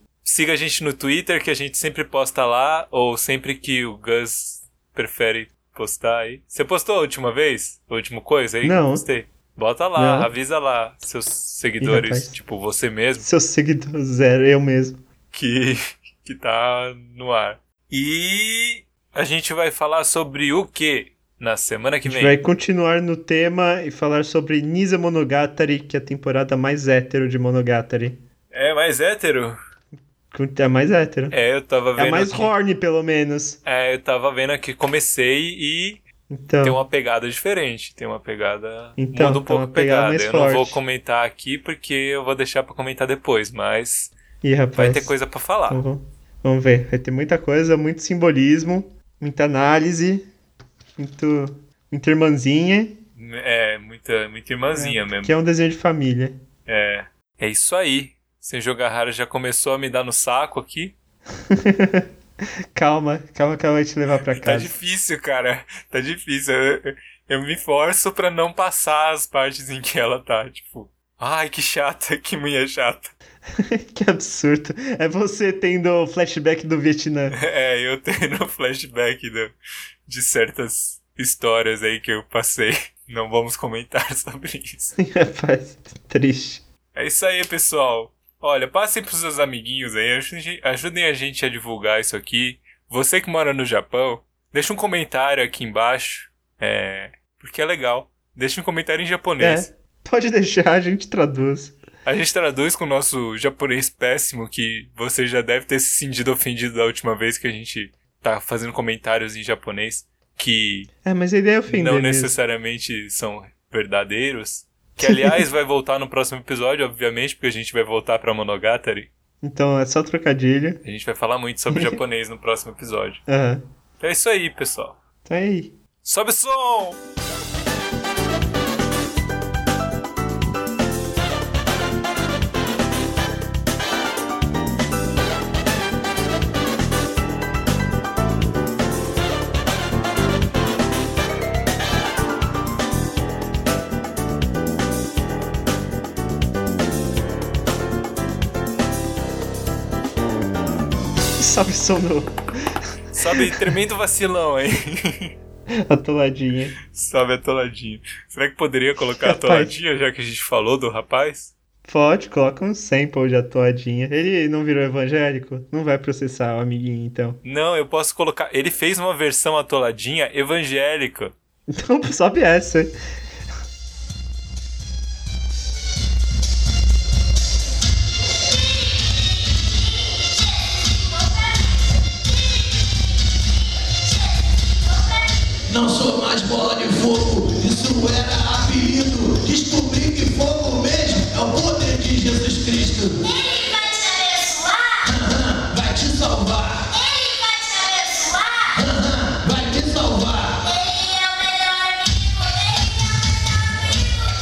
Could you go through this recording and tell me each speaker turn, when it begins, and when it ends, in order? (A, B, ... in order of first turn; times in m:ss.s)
0:00.2-0:13.3 A
0:08.6-0:09.0 B
0:10.0-0:10.3 B
0:11.8-0:12.4 B
0:13.2-0:15.0 B
0:15.3-0:22.4 A
0:22.0-0:28.2 B
0:28.5-0:29.6 A
0:30.3-0:31.4 B
0:31.3-0:32.5 A
0:32.0-0:33.6 B
0:33.6-0:36.0 A
0:36.3-0:36.8 B
0:36.6-0:44.1 A
0:39.0-0:40.8 B
0:44.4-0:45.1 B
0:44.8-0:45.8 A
0:45.7-0:50.3 B
0:51.0-0:53.0 B
0:53.2-0:55.3 A
0:54.7-0:56.4 B
0:56.6-1:00.9 A
1:01.5-1:02.0 B
1:02.7-1:04.7 B
1:04.2-1:13.1 A
1:13.6-1:17.4 B
1:17.3-1:19.5 A
1:20.0-1:24.9 A
1:25.0-1:26.6 B
1:26.9-1:39.7 A
1:39.4-1:41.8 B
1:42.0-1:50.9 A
1:51.0-1:52.3 B
1:51.7-1:59.1 A
1:55.0-1:55.5 B
1:59.4-2:00.8 B
2:00.8-2:03.2 A
2:01.7-2:02.0 B
2:03.3-2:03.6 B
2:04.0-2:05.0 A
2:05.2-2:05.8 B
2:06.0-2:07.0 A
2:31.4-2:32.7 B
2:33.1-2:35.3 A
2:33.3-2:33.6 B
2:35.9-2:36.8 B
2:36.8-2:41.5 A
2:39.2-2:39.7 B
2:41.8-2:47.4 B
2:47.4-2:51.3 A
2:51.7-2:52.9 B
3:05.7-3:22.1 C